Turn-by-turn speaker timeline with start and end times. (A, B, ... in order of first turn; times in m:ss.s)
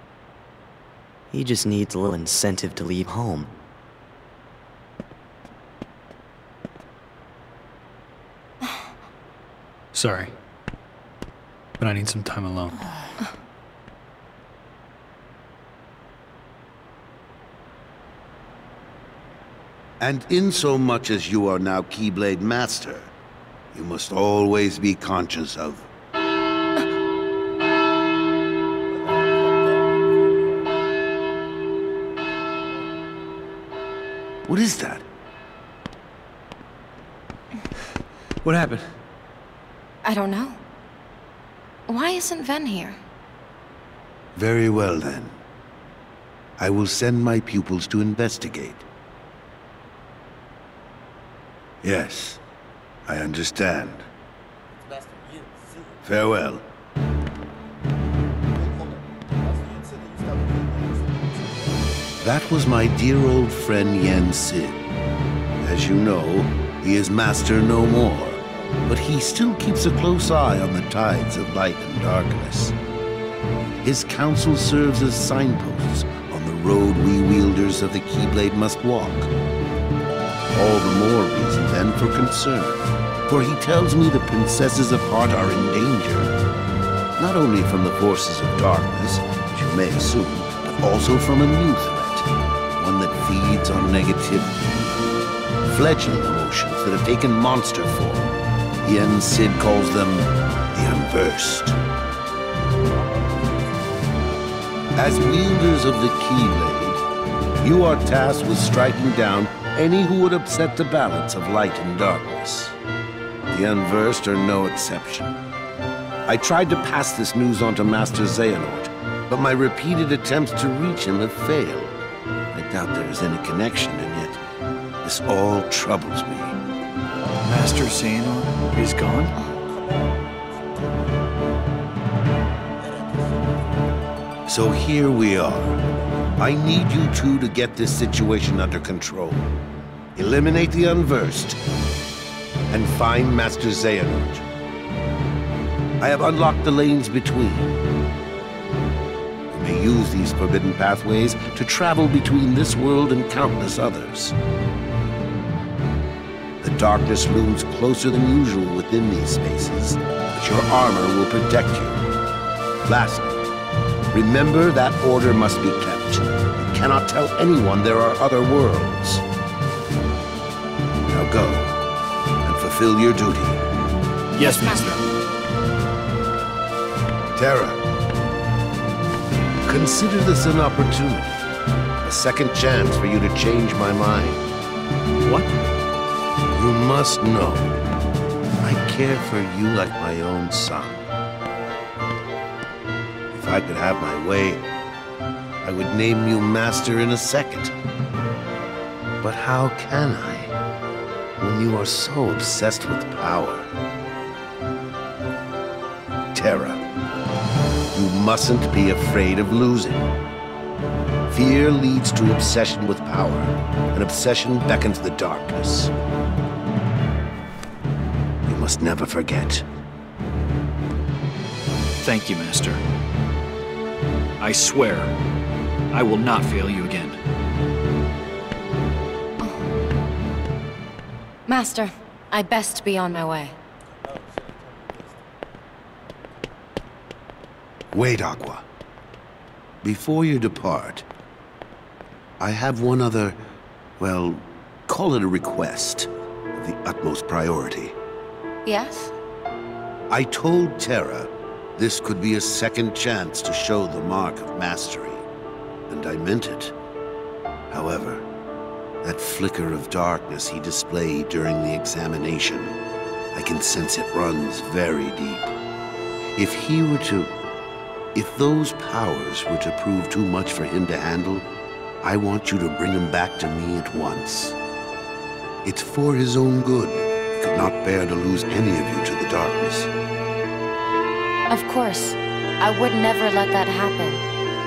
0:01.3-0:03.5 A
0:09.9-0:10.3 B
0:11.8-0:12.8 B
0:20.0-0:23.1 C
0:23.7-0:25.9 C
0:28.9-0:30.8 D
0:32.6-0:33.0 D
0:34.5-0:35.0 C
0:38.4-0:38.9 B
0:40.0-0:40.6 E
0:41.9-0:43.0 E
0:44.4-0:45.4 C
0:46.6-0:48.8 C
0:51.8-0:52.4 C
0:53.0-0:54.0 C
0:54.7-0:56.0 D
0:56.0-0:56.6 C
0:58.5-1:02.4 D
1:02.2-1:04.8 C
1:05.6-1:12.7 C
1:08.4-1:08.8 D
1:13.8-1:19.3 C
1:20.5-1:26.3 C
1:27.2-1:34.9 C
1:35.7-1:41.8 C
1:42.8-1:44.5 D
1:44.9-1:47.0 C
1:47.6-1:52.8 C
1:53.5-1:55.3 C
1:56.2-2:02.0 C
2:02.5-2:04.4 C
2:05.0-2:06.6 C
2:07.4-2:09.3 B
2:09.3-2:11.4 D
2:12.8-2:14.0 D
2:14.5-2:15.8 C
2:16.4-2:19.5 C
2:20.2-2:21.6 C
2:22.7-2:24.4 C
2:26.0-2:27.7 C
2:29.5-2:34.3 C
2:36.6-2:42.0 C
2:42.8-2:43.3 C
2:44.1-2:49.2 C
2:51.1-2:51.7 C
2:52.4-2:53.6 C
2:54.4-2:55.0 B
2:54.4-2:54.9 E
2:57.3-2:57.8 C
2:59.6-3:01.5 C
3:02.0-3:04.4 C
3:05.2-3:05.5 B
3:06.5-3:07.7 C
3:08.6-3:11.1 C
3:13.3-3:14.7 C
3:15.6-3:17.7 C
3:19.2-3:20.5 C
3:21.4-3:23.7 C
3:26.3-3:26.8 C
3:27.9-3:30.1 C
3:31.3-3:35.9 C
3:38.4-3:39.6 C
3:42.0-3:42.8 B
3:44.4-3:45.1 B
3:45.9-3:47.2 B
3:51.5-3:53.6 E
3:54.0-3:55.2 D
3:57.9-3:58.6 C
3:59.8-4:01.0 C
4:02.4-4:03.4 C
4:04.0-4:08.0 C
4:08.6-4:09.1 E
4:10.1-4:15.2 C
4:15.9-4:16.7 C
4:17.7-4:18.2 C
4:19.0-4:22.8 C
4:23.3-4:25.5 C
4:26.4-4:27.4 C
4:28.1-4:31.5 C
4:32.0-4:34.6 C
4:35.6-4:39.9 C
4:41.5-4:44.2 E